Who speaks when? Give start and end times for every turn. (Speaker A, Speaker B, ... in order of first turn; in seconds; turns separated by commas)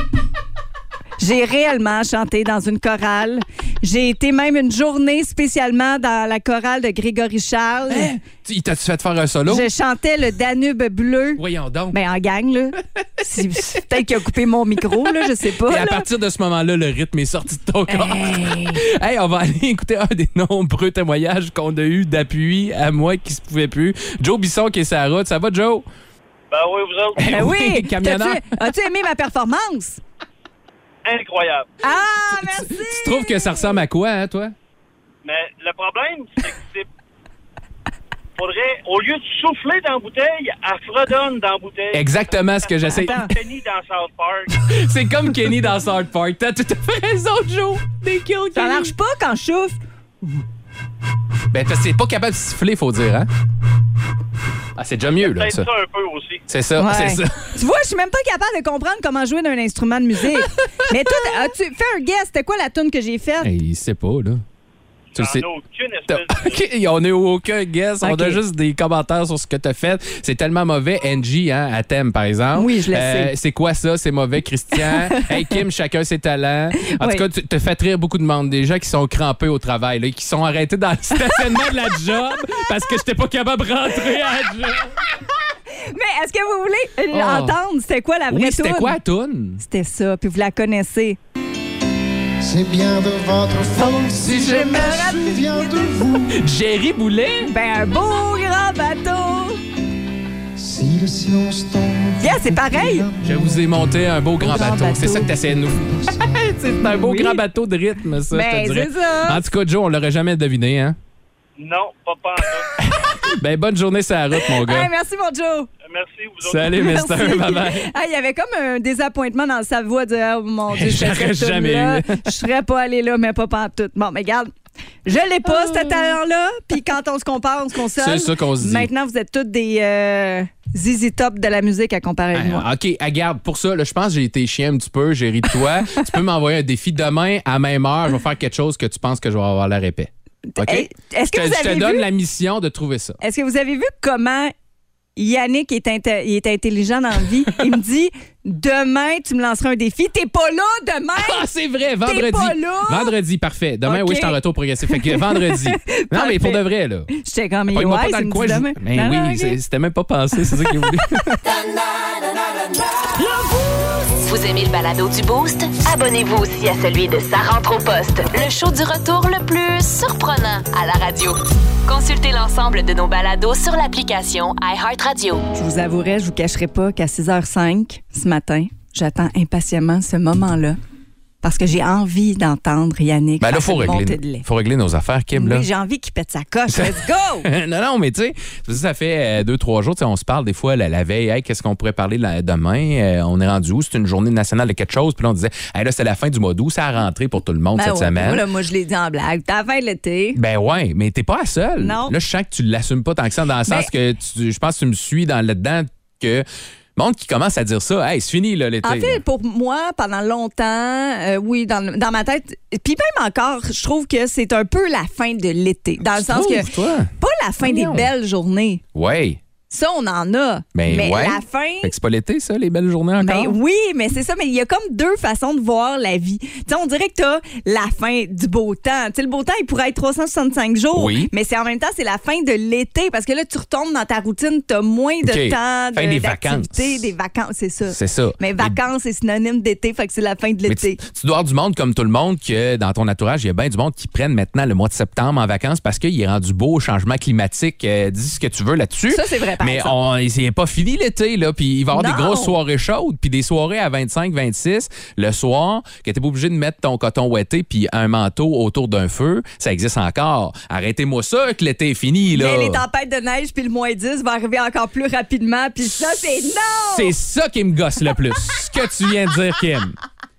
Speaker A: 1.2-8.1, Speaker B: 7.9-9.7, Speaker A: 9.5-16.0, Speaker B: 11.4-12.0, Speaker B: 13.3-14.1, Speaker B: 14.9-25.9, Speaker A: 17.9-18.8, Speaker C: 26.5-27.4, Speaker B: 27.2-28.4, Speaker A: 27.3-30.0, Speaker C: 31.0-31.7, Speaker A: 31.8-33.8, Speaker B: 32.4-34.5, Speaker C: 35.2-36.9, Speaker C: 38.4-42.0, Speaker B: 41.9-43.2, Speaker C: 42.7-44.6, Speaker A: 42.9-43.3, Speaker B: 44.6-48.9, Speaker A: 48.5-49.8, Speaker B: 51.5-53.3, Speaker B: 54.7-55.7, Speaker C: 55.2-56.4, Speaker B: 56.5-57.5, Speaker A: 56.8-63.5, Speaker B: 60.3-61.4, Speaker B: 63.4-64.4, Speaker C: 65.1-66.6, Speaker B: 65.1-65.4, Speaker B: 66.1-85.0, Speaker A: 68.0-68.4, Speaker A: 72.5-73.3, Speaker A: 74.7-75.6, Speaker A: 76.8-77.2, Speaker A: 81.2-81.6, Speaker A: 85.8-89.0, Speaker B: 87.1-87.6, Speaker B: 88.3-89.6, Speaker A: 89.6-91.2, Speaker D: 92.4-96.4, Speaker B: 93.8-95.3, Speaker A: 93.9-96.1, Speaker B: 96.3-97.5, Speaker A: 97.4-99.6, Speaker D: 100.5-103.9, Speaker A: 102.2-103.1, Speaker B: 103.2-111.0, Speaker A: 104.4-105.3, Speaker D: 105.9-106.2, Speaker A: 106.8-107.4, Speaker A: 108.3-109.5, Speaker C: 111.6-112.8, Speaker B: 112.8-114.9, Speaker A: 112.9-113.3, Speaker A: 114.4-115.7, Speaker C: 115.8-116.9, Speaker B: 116.4-117.9, Speaker A: 116.7-124.5, Speaker B: 120.7-122.3, Speaker A: 125.0-132.7, Speaker B: 125.4-126.2, Speaker B: 127.9-128.9, Speaker B: 132.3-143.2, Speaker A: 140.5-142.1, Speaker A: 143.2-144.5, Speaker A: 145.2-151.4, Speaker B: 151.2-157.1, Speaker A: 152.0-153.1, Speaker A: 153.8-159.6, Speaker B: 157.7-161.4, Speaker A: 160.5-160.9, Speaker E: 164.2-175.4, Speaker A: 175.5-180.8, Speaker A: 181.4-184.4, Speaker B: 183.4-185.7, Speaker A: 185.3-187.5, Speaker B: 186.7-198.4, Speaker A: 197.8-200.4, Speaker B: 200.3-206.4, Speaker A: 201.8-202.1, Speaker B: 206.9-209.2, Speaker A: 208.8-218.8, Speaker B: 216.0-218.1, Speaker B: 218.9-219.4, Speaker A: 219.7-221.9, Speaker B: 220.7-223.6, Speaker A: 223.2-241.0, Speaker B: 230.9-231.3, Speaker B: 235.2-237.1, Speaker B: 237.9-238.8, Speaker B: 240.7-262.8, Speaker A: 249.1-249.9, Speaker A: 251.9-252.6, Speaker A: 262.3-267.1, Speaker B: 266.9-269.9